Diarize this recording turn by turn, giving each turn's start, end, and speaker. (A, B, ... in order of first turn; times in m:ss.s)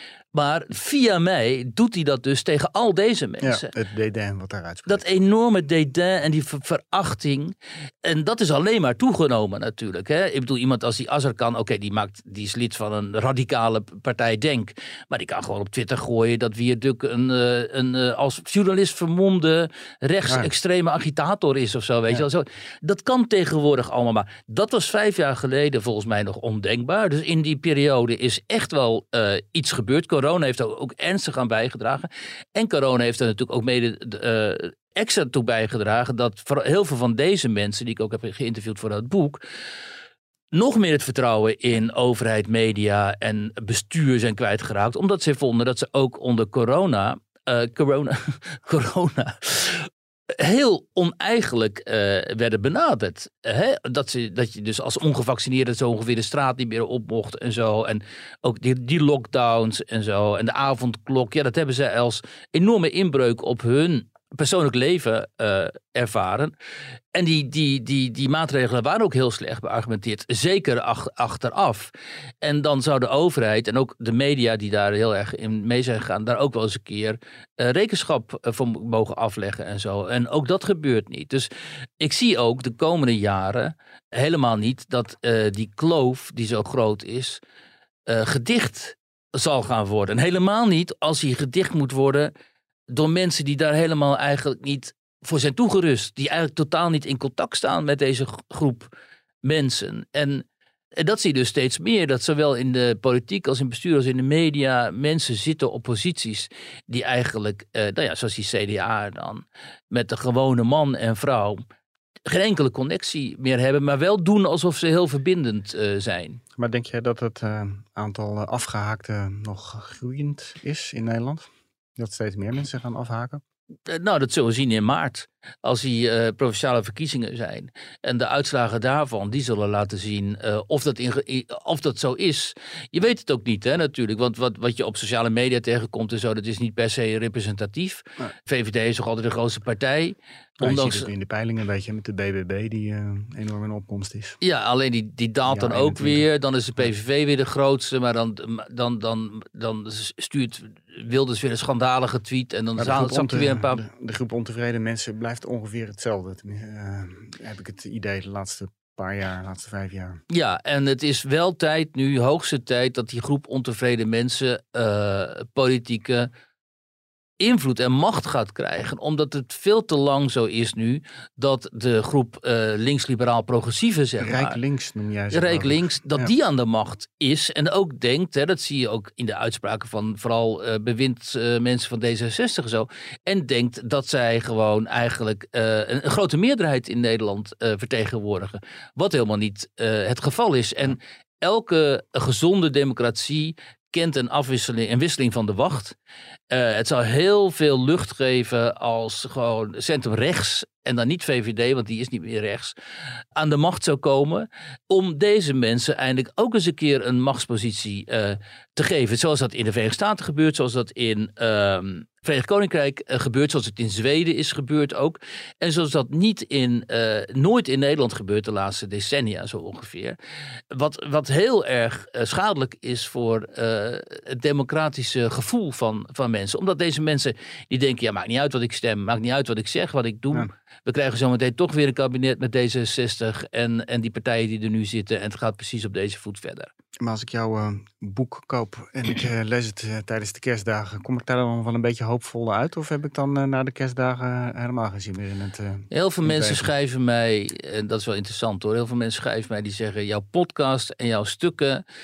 0:00.3-0:03.7 A
0:03.4-0:05.1 B
0:04.9-0:39.4 A
0:40.5-1:06.5 A
1:07.1-1:21.5 A
1:22.0-1:27.4 A
1:28.1-1:32.3 A
1:32.9-1:38.9 A
1:39.4-1:40.4 A
1:41.0-1:51.6 A
1:52.3-1:56.4 A
1:56.6-2:03.4 B
2:03.9-2:21.1 A
2:20.6-2:24.4 B
2:24.4-2:33.8 A
2:25.5-2:26.2 B
2:32.8-2:40.2 B
2:40.3-2:46.3 A
2:47.4-2:54.6 A
2:54.2-2:56.3 B
2:55.3-3:16.0 A
3:16.5-3:22.7 A
3:23.4-3:40.2 A
3:40.7-3:56.7 A
3:57.0-4:06.7 B
4:05.9-4:11.8 A